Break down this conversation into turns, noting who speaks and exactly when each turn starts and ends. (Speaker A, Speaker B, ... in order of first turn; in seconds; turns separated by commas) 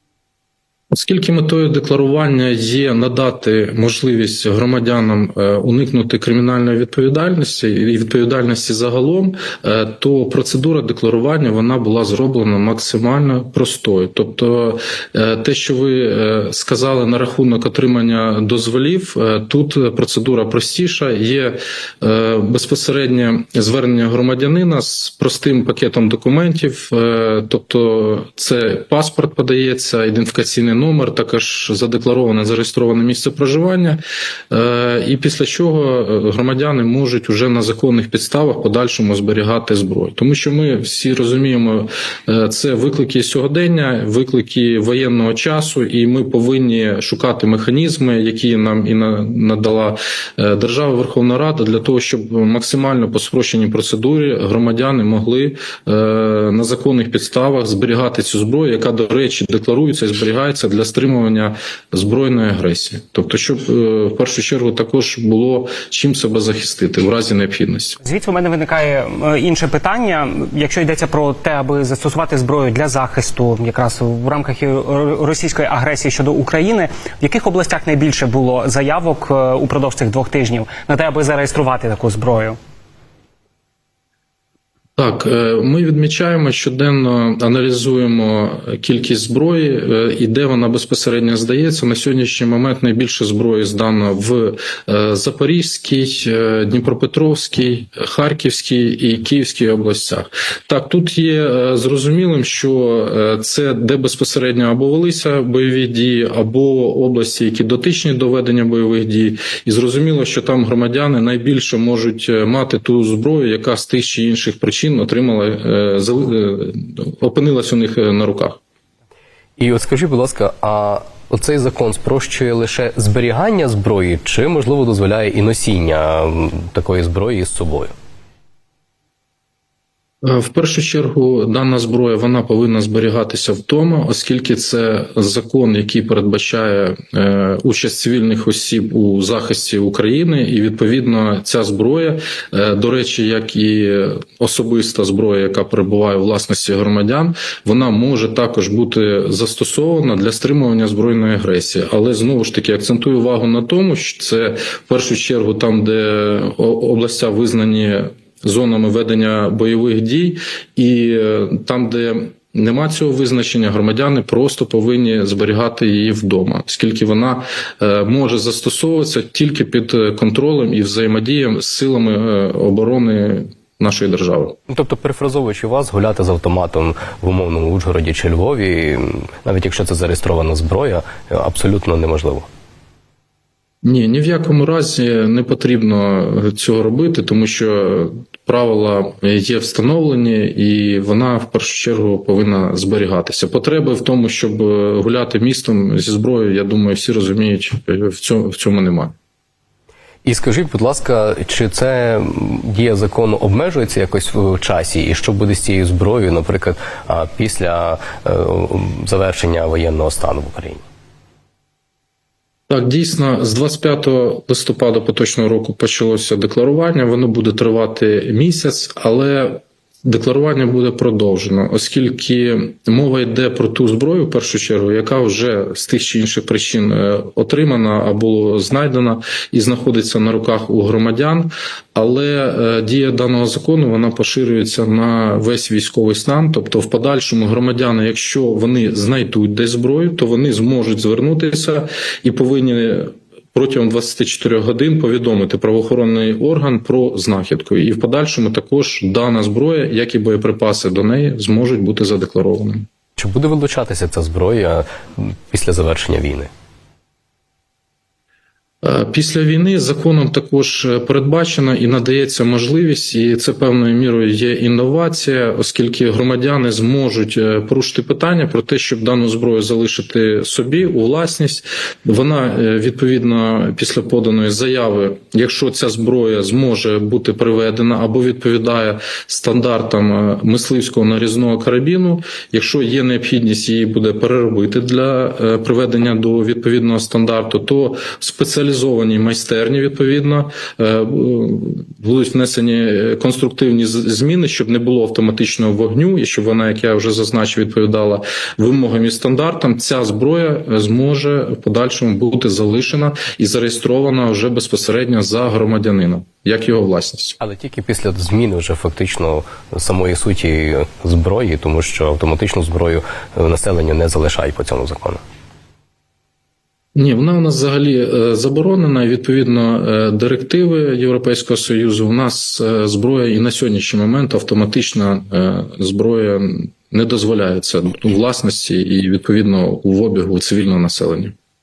Speaker A: 0.9-68.0, Speaker B: 68.0-82.6, Speaker A: 85.0-118.6, Speaker C: 119.6-127.9, Speaker A: 130.2-174.6, Speaker C: 174.7-182.5, Speaker A: 183.8-199.1, Speaker C: 200.2-210.8, Speaker A: 212.7-252.9, Speaker C: 253.2-256.5, Speaker A: 258.8-307.4, Speaker C: 307.4-315.2, Speaker A: 316.9-331.3